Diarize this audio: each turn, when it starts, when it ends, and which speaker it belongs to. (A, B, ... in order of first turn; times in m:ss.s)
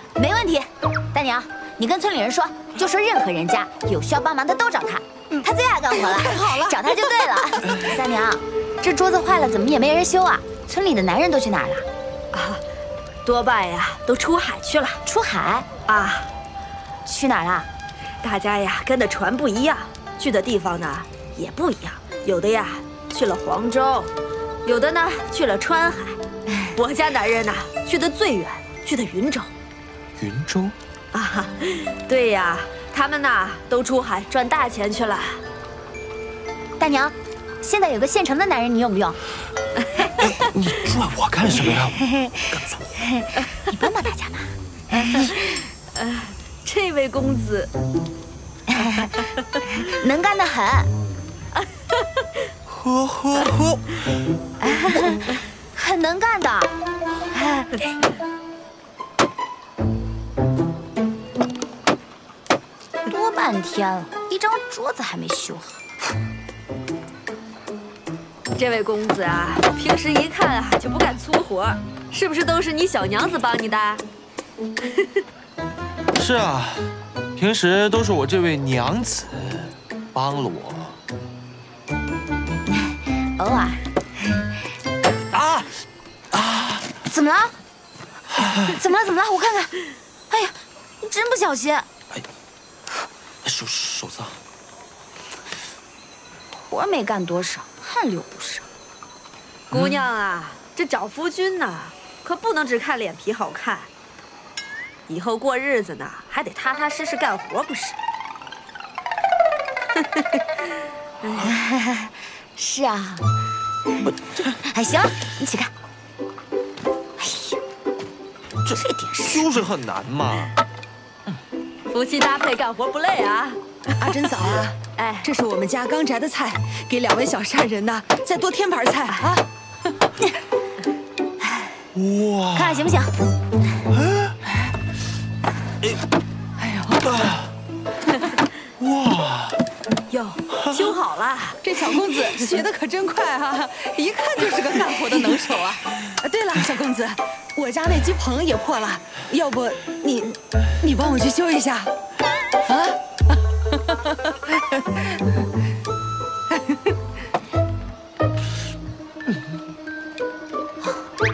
0:00.2-0:11.9 A
0:05.9-0:06.8 B
0:12.3-0:12.6 C
0:13.2-0:15.0 C
0:15.0-0:15.7 A
0:15.9-0:16.3 C
0:17.1-0:17.7 A
0:18.2-0:24.1 C
0:24.6-0:29.5 C
0:30.2-0:30.8 D
0:31.1-0:35.4 C
0:36.8-0:39.2 A
0:40.0-0:40.3 C
0:40.2-0:42.8 D
0:43.0-0:45.4 A
0:44.9-0:47.7 C
0:48.7-0:49.2 A
0:49.7-0:50.9 A
0:52.7-0:53.8 D
0:54.6-0:56.7 A
0:57.3-0:57.9 A
1:03.1-1:05.8 A
1:08.6-1:14.0 C
1:16.2-1:21.0 D
1:23.4-1:23.8 A
1:25.3-1:25.7 D
1:26.3-1:26.8 D
1:27.0-1:27.5 A
1:28.6-1:29.7 A
1:30.3-1:31.9 A
1:33.4-1:34.4 D
1:36.7-1:38.7 A
1:39.7-1:43.9 C
1:45.1-1:48.0 C
1:51.4-1:53.2 A
1:53.9-1:55.7 A
1:57.2-1:57.6 A
1:58.7-2:00.5 D
1:58.7-1:59.5 A
2:01.9-2:04.3 C
2:04.0-2:09.4 B
2:05.0-2:05.3 C
2:11.9-2:12.8 D
2:12.5-2:13.2 A
2:16.6-2:17.3 B
2:18.8-2:19.6 D
2:20.1-2:21.6 C
2:21.6-2:31.9 B
2:32.6-2:33.0 B
2:33.7-2:35.0 B